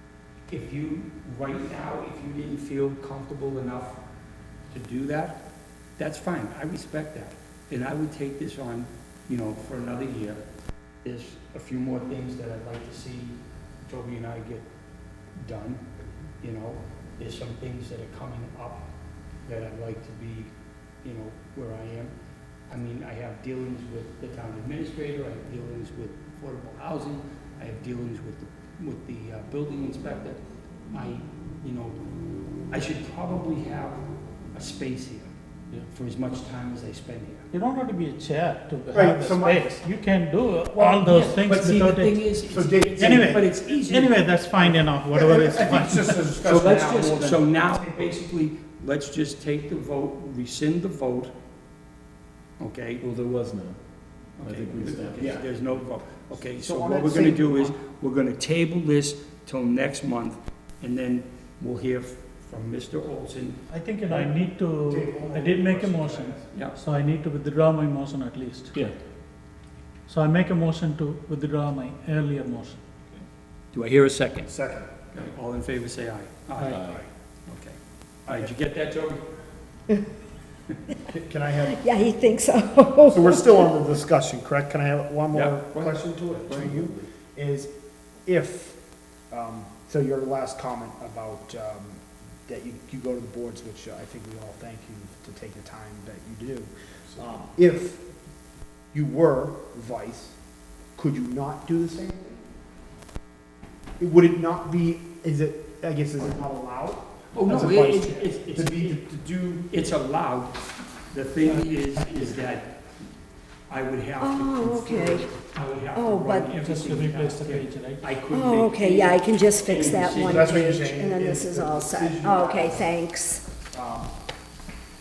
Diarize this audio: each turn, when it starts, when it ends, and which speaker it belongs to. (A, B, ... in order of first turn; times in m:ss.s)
0:00.5-0:04.0 A
0:04.7-0:05.4 A
0:06.0-0:10.4 A
0:11.0-0:14.7 A
0:15.4-0:15.8 A
0:16.4-0:18.9 A
0:19.4-0:20.5 A
0:21.0-0:22.1 A
0:22.7-0:30.4 A
0:30.9-0:32.0 A
0:32.7-0:34.0 A
0:34.5-0:35.3 A
0:35.9-0:37.5 A
0:37.5-0:42.2 B
0:38.9-0:39.7 C
0:40.8-0:44.7 A
0:41.4-0:41.9 C
0:42.4-0:43.4 C
0:43.0-0:46.3 B
0:44.6-0:48.2 C
0:46.4-0:51.3 A
0:52.6-0:53.0 A
0:53.0-0:53.8 D
0:54.4-0:55.7 D
0:54.4-1:03.6 A
0:56.6-0:57.8 C
1:03.7-1:08.7 B
1:04.1-1:06.5 C
1:06.5-1:06.8 A
1:10.1-1:12.8 B
1:13.7-1:14.5 A
1:14.5-1:14.9 C
1:15.1-1:16.8 A
1:16.6-1:16.8 B
1:16.6-1:17.0 D
1:16.7-1:17.1 C
1:17.5-1:19.3 A
1:18.3-1:18.5 C
1:21.1-1:21.8 C
1:21.7-1:23.7 E
1:23.1-1:27.7 C
1:25.3-1:26.7 A
1:26.3-1:27.0 D
1:28.2-1:28.8 C
1:29.3-1:38.0 C
1:38.9-1:40.4 C
1:41.0-1:42.4 C
1:44.0-1:49.7 C
1:47.3-1:49.0 A
1:49.7-1:52.7 A
1:53.7-2:00.5 A
1:54.2-1:55.3 E
1:55.9-1:56.5 E
1:56.5-1:58.1 B
1:58.3-2:03.4 E
1:59.9-2:03.0 C
2:03.7-2:04.1 C